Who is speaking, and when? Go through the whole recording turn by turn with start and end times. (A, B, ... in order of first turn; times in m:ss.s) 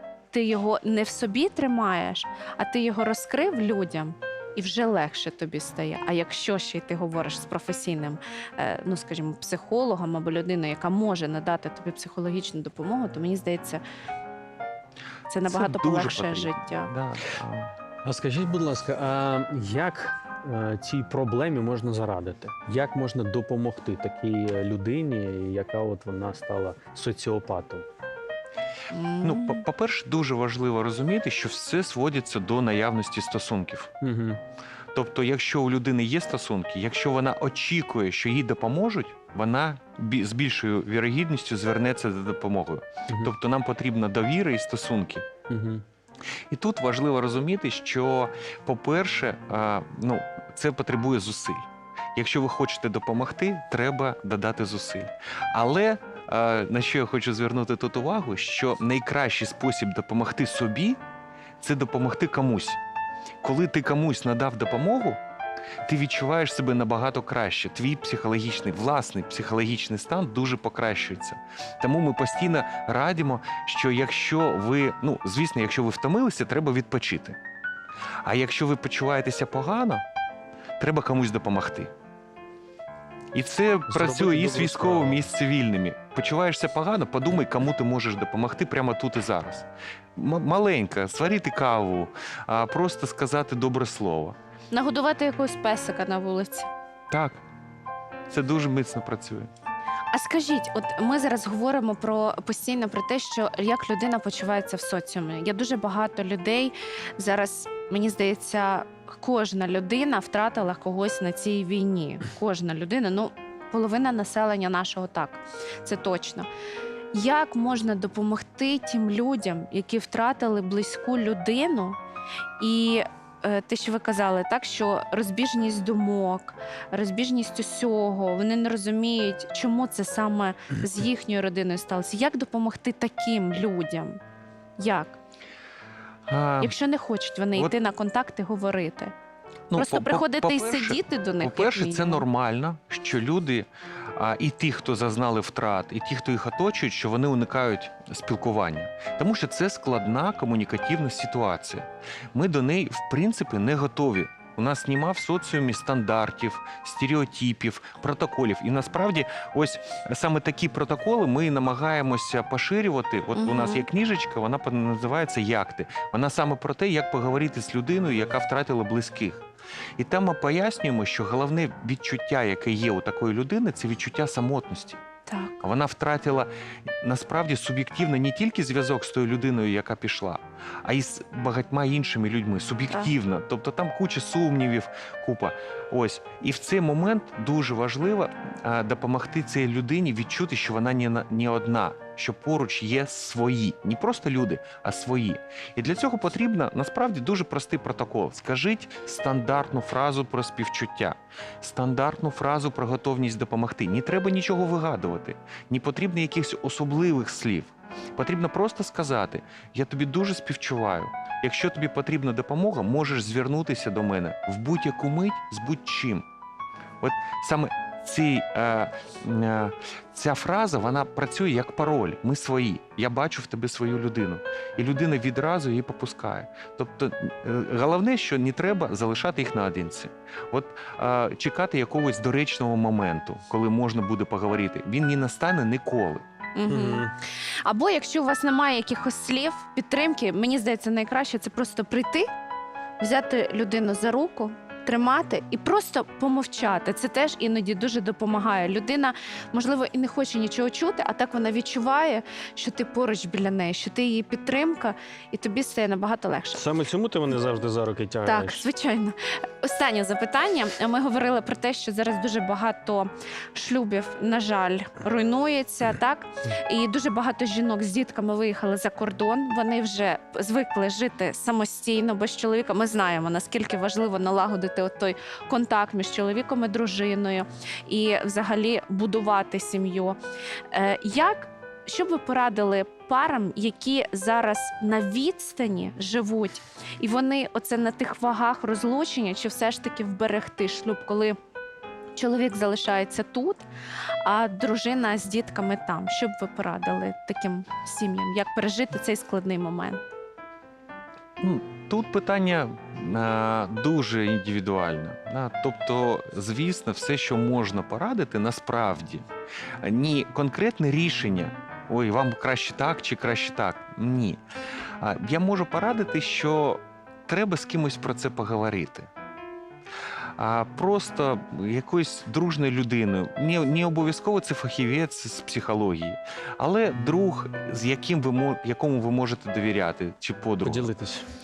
0:00.3-0:13.8 A
0:15.3-0:16.9 A
0:15.5-0:17.7 B
0:18.0-0:27.8 C
0:28.9-0:29.6 A
0:29.2-0:33.9 B
0:34.0-0:34.4 C
0:34.9-0:45.3 B
0:43.1-0:43.3 C
0:45.5-0:45.8 C
0:46.5-1:01.0 B
1:01.6-1:02.8 B
1:03.4-1:05.2 B
1:05.8-1:17.4 B
1:18.2-1:20.0 B
1:20.8-1:21.9 B
1:23.3-1:34.4 B
1:23.9-1:25.2 C
1:34.7-1:36.7 A
1:37.1-1:37.4 B
1:38.3-1:39.5 B
1:40.1-1:56.5 A
1:57.1-2:02.0 A
2:02.6-2:14.2 A
2:14.8-2:15.2 A
2:16.3-2:16.8 B
2:16.6-2:19.1 A
2:19.7-2:49.4 B
2:19.8-2:22.3 A
2:43.4-2:43.9 A
2:50.0-2:55.0 B
2:55.3-2:55.6 A
2:55.6-2:56.5 B
2:57.0-3:36.2 B
3:37.0-3:56.2 B
3:56.6-3:57.1 A
3:56.7-3:57.1 C
3:57.6-4:02.3 A
4:03.0-4:16.6 A
4:16.6-4:18.6 C
4:18.3-4:40.2 A
4:40.7-4:51.4 A
4:52.2-4:53.6 A
4:54.2-5:00.0 A
5:01.4-5:09.2 B
5:09.8-5:14.4 B
5:15.0-5:19.1 B
5:20.4-5:30.9 B
5:30.6-5:31.3 C